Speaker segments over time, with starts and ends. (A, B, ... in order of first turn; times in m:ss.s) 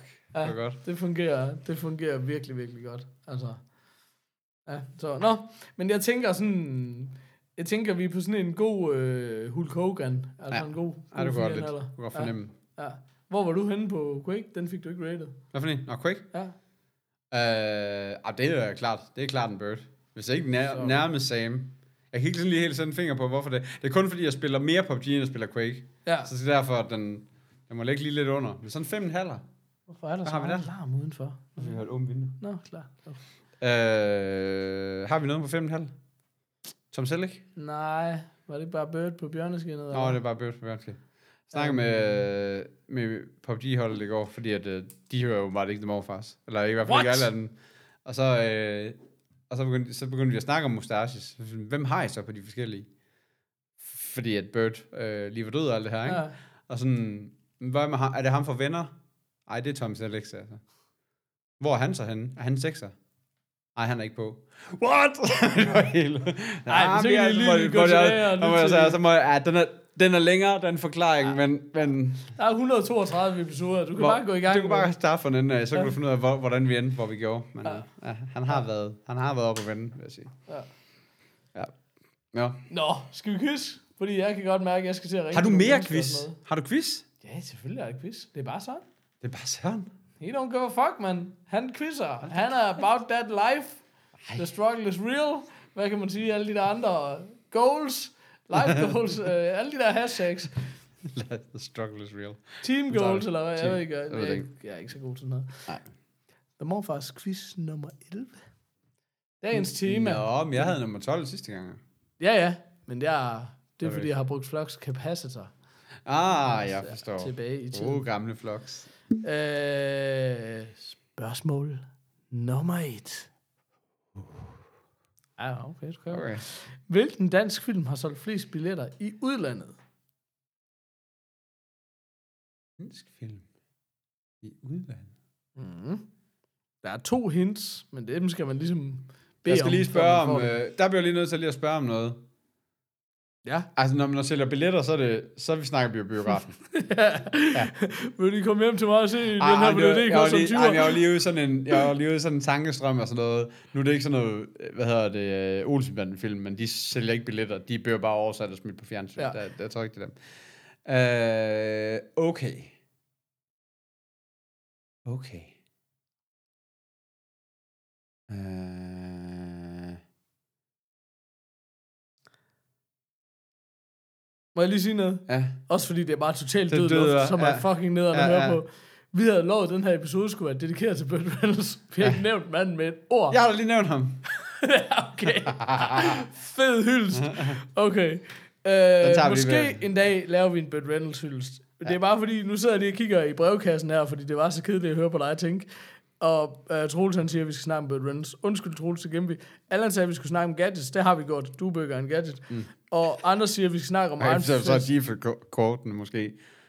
0:00.3-0:03.6 A
0:00.4-0:00.8 B
0:04.7-0:15.4 A
0:10.5-0:12.5 B
0:15.5-0:16.2 B
0:17.3-0:29.4 B
0:20.7-0:21.0 A
0:26.0-0:26.3 A
0:29.9-0:31.8 A
0:30.2-0:30.7 B
0:31.6-0:32.4 B
0:32.4-0:33.2 A
0:33.6-0:35.9 B
0:36.9-0:37.4 B
0:37.6-0:40.2 A
0:39.9-0:41.0 B
0:41.5-0:42.2 A
0:41.5-0:47.5 B
0:46.8-0:47.3 A
0:48.0-0:49.0 B
0:49.5-0:52.9 B
0:53.8-0:58.9 B
0:56.0-0:56.3 A
0:59.5-1:00.6 B
1:01.6-1:02.9 B
1:03.8-1:12.3 B
1:06.7-1:09.0 A
1:12.3-1:14.9 A
1:14.0-1:20.3 B
1:22.3-1:22.6 B
1:22.7-1:26.4 A
1:25.3-1:27.0 B
1:27.2-1:28.8 A
1:29.2-1:29.9 B
1:30.2-1:33.8 A
1:34.3-1:40.7 A
1:41.0-1:44.4 B
1:42.6-1:45.6 A
1:46.6-1:48.4 A
1:49.4-1:50.7 A
1:49.6-1:51.8 B
1:52.2-1:55.5 A
1:53.8-1:54.1 B
1:56.0-1:58.9 B
1:56.3-1:58.0 A
1:59.2-2:03.3 A
2:05.4-2:09.8 A
2:06.1-2:06.4 B
2:12.8-2:13.4 B
2:14.4-2:15.1 B
2:15.6-2:16.0 A
2:16.8-2:20.5 A
2:19.4-2:22.2 B
2:23.8-2:26.6 B
2:26.7-2:31.0 A
2:29.4-2:40.2 B
2:40.8-2:42.7 B
2:45.0-2:45.6 B
2:48.3-2:50.0 B
2:54.6-3:03.4 A
2:55.3-2:55.6 B
2:56.7-2:58.6 B
3:03.3-3:04.2 B
3:04.4-3:15.7 A
3:05.4-3:06.2 B
3:07.2-3:07.6 B
3:09.0-3:09.8 B
3:16.2-3:24.9 A
3:24.2-3:26.4 B